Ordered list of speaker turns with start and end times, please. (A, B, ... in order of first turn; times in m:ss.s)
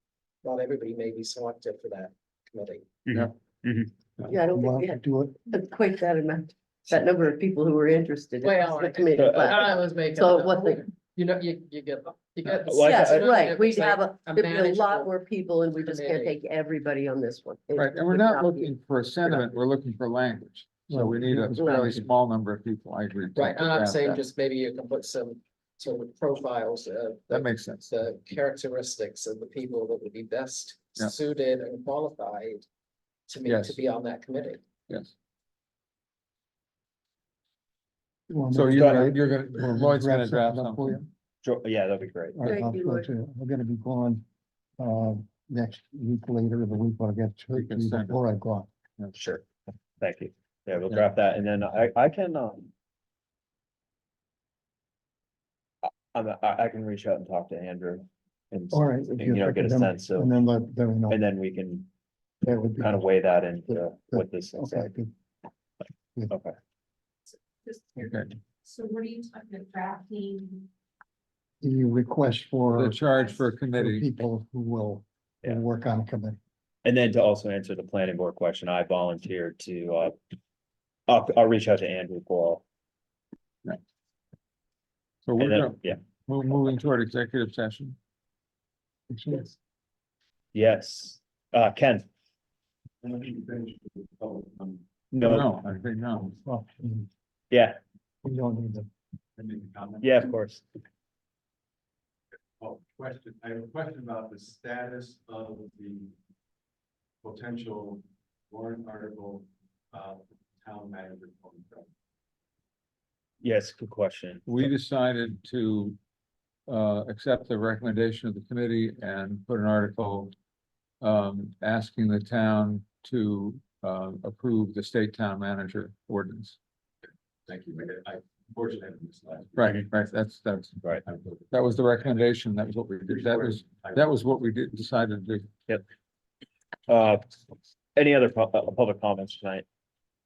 0:00.4-0:02.9 A
0:03.0-0:03.9 B
0:04.3-0:10.8 C
0:04.3-0:05.4 D
0:08.4-0:15.1 A
0:09.2-0:09.5 B
0:12.6-0:13.4 B
0:12.8-0:18.7 C
0:15.8-0:16.3 A
0:17.7-0:24.2 E
0:20.9-0:22.1 D
0:21.6-0:21.9 C
0:23.3-0:32.6 A
0:27.3-0:27.8 E
0:33.3-0:34.6 A
0:33.4-0:33.8 E
0:38.3-0:41.0 D
0:38.5-0:41.1 E
0:38.7-0:39.1 B
0:41.4-0:42.5 B
0:42.3-0:44.2 D
0:42.4-0:43.1 C
0:44.8-0:48.7 D
0:47.5-0:48.2 E
0:49.1-0:49.4 B
0:50.0-0:52.7 B
0:56.1-1:00.3 B
0:58.7-1:01.2 D
1:01.1-1:01.9 B
1:02.4-1:03.1 D
1:02.8-1:04.9 B
1:03.7-1:05.1 D
1:06.3-1:06.5 B
1:07.6-1:08.1 F
1:08.0-1:08.3 E
1:08.6-1:10.6 F
1:11.6-1:13.0 D
1:12.7-1:14.1 E
1:13.7-1:16.4 D
1:16.8-1:20.1 B
1:21.1-1:22.6 B
1:25.2-1:28.0 E
1:25.4-1:26.0 B
1:29.1-1:29.5 D
1:30.5-1:32.0 B
1:33.0-1:34.8 G
1:35.1-1:35.5 B
1:35.2-1:36.3 E
1:36.4-1:37.1 D
1:37.5-1:37.8 B
1:38.2-1:38.9 D
1:39.4-1:40.3 G
1:40.0-1:40.6 B
1:42.6-1:46.1 G
1:47.2-1:51.9 G
1:53.4-1:54.7 B
1:54.4-1:56.0 E
1:56.7-2:00.3 E
2:01.0-2:06.6 E
2:07.5-2:09.8 G
2:09.5-2:11.0 E
2:11.0-2:11.6 G
2:11.5-2:15.5 E
2:13.1-2:14.0 G
2:16.9-2:17.3 B
2:18.0-2:19.6 B